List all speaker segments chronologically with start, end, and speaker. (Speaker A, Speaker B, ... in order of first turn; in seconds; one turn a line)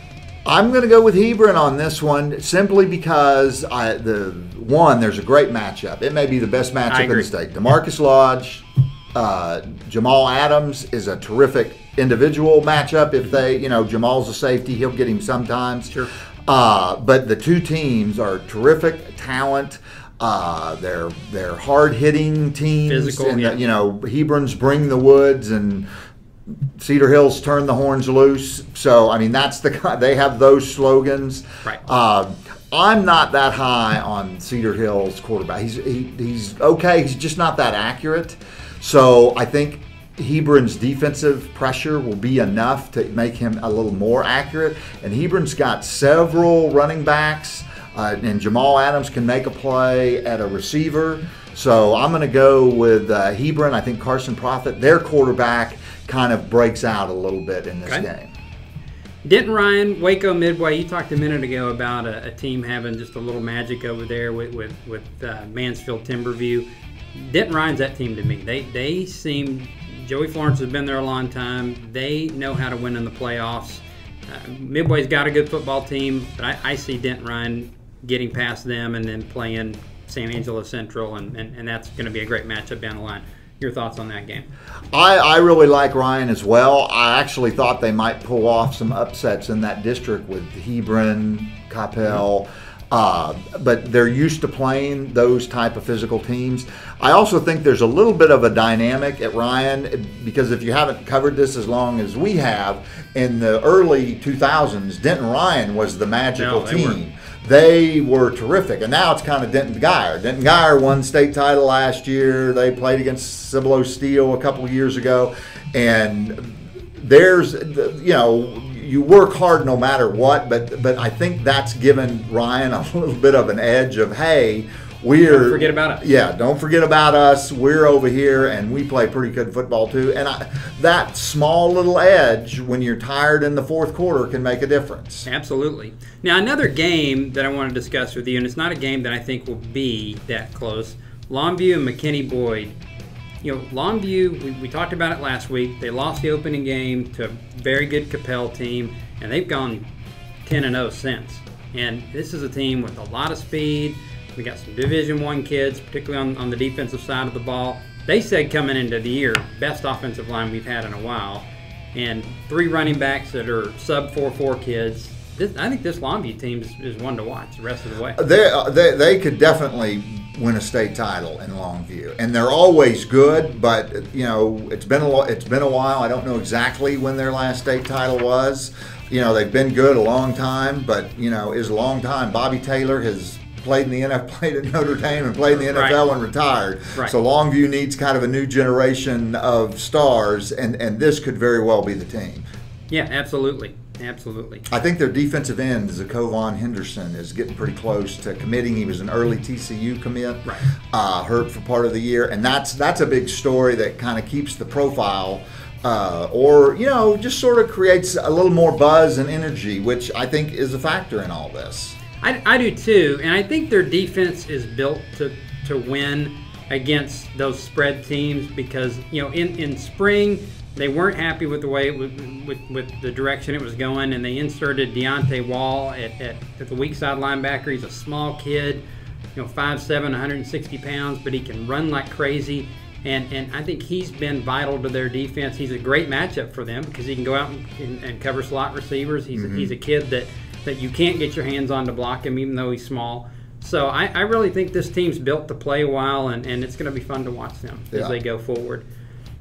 Speaker A: 0.5-15.9
Speaker B: 6.9-7.3
Speaker A: 16.5-25.9
Speaker B: 22.9-23.6
Speaker A: 26.8-58.3
Speaker B: 59.2-84.5
Speaker A: 84.9-135.3
Speaker B: 106.3-107.0
Speaker B: 125.2-126.0
Speaker B: 135.2-142.7
Speaker B: 143.4-149.9
Speaker B: 150.4-168.2
Speaker A: 168.2-192.4
Speaker B: 185.7-186.0
Speaker B: 192.9-194.7
Speaker A: 194.7-212.0
Speaker B: 212.2-228.8
Speaker B: 229.3-248.8
Speaker A: 239.3-239.7
Speaker A: 247.9-248.2